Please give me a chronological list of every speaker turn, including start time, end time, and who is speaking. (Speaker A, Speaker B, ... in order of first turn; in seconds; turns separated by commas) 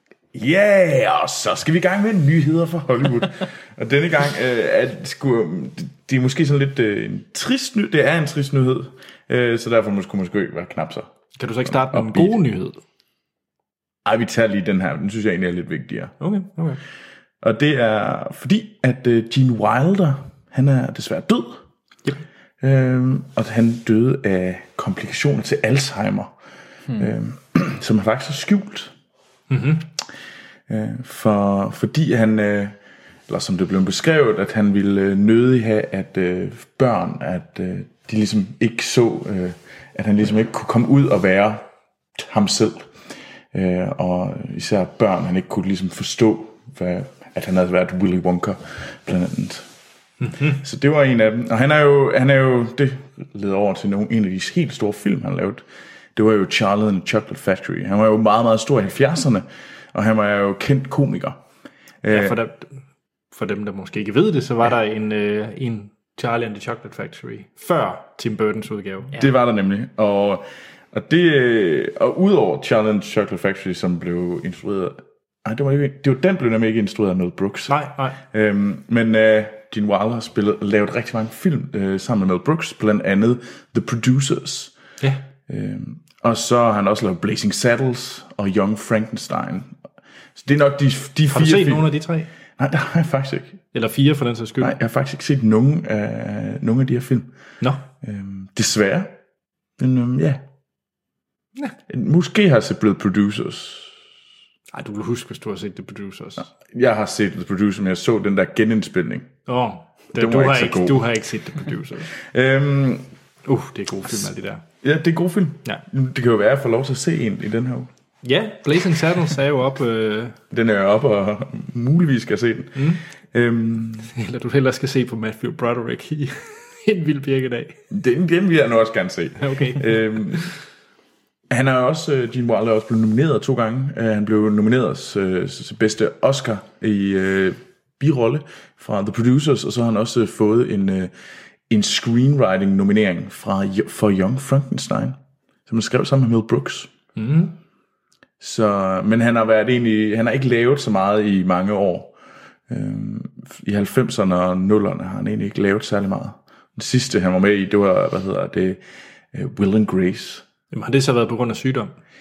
Speaker A: 0.3-11.1, Speaker B: 11.4-12.8, Speaker A: 11.7-12.3, Speaker A: 14.0-16.1, Speaker B: 16.2-16.8, Speaker A: 17.4-21.6, Speaker A: 22.6-26.3, Speaker A: 27.0-28.9, Speaker B: 29.5-29.9, Speaker A: 30.7-32.8, Speaker A: 33.3-42.9, Speaker A: 43.5-49.7, Speaker B: 50.2-50.6, Speaker A: 50.4-55.6, Speaker A: 56.1-61.4, Speaker A: 62.0-62.4, Speaker B: 62.1-62.7, Speaker B: 63.3-69.3, Speaker A: 69.1-84.7, Speaker B: 77.7-78.2, Speaker A: 85.5-89.7, Speaker A: 90.3-91.9, Speaker B: 91.3-92.3, Speaker A: 92.6-93.6, Speaker B: 93.7-94.7, Speaker A: 94.6-97.3, Speaker A: 98.0-99.2, Speaker A: 99.8-100.4, Speaker A: 101.9-103.9, Speaker B: 104.7-106.5, Speaker A: 106.5-109.3, Speaker B: 109.5-112.1, Speaker A: 110.1-111.1, Speaker A: 112.1-113.0, Speaker B: 113.5-114.6, Speaker A: 114.8-117.9, Speaker B: 118.2-120.4, Speaker A: 120.5-124.1, Speaker B: 122.8-123.0, Speaker B: 124.1-127.8, Speaker A: 127.9-130.5, Speaker B: 129.4-130.4, Speaker A: 131.5-141.1, Speaker A: 141.7-145.2, Speaker A: 145.7-146.9, Speaker B: 147.2-147.5, Speaker A: 148.4-152.1, Speaker A: 152.7-158.8, Speaker A: 159.3-160.4, Speaker B: 160.7-161.9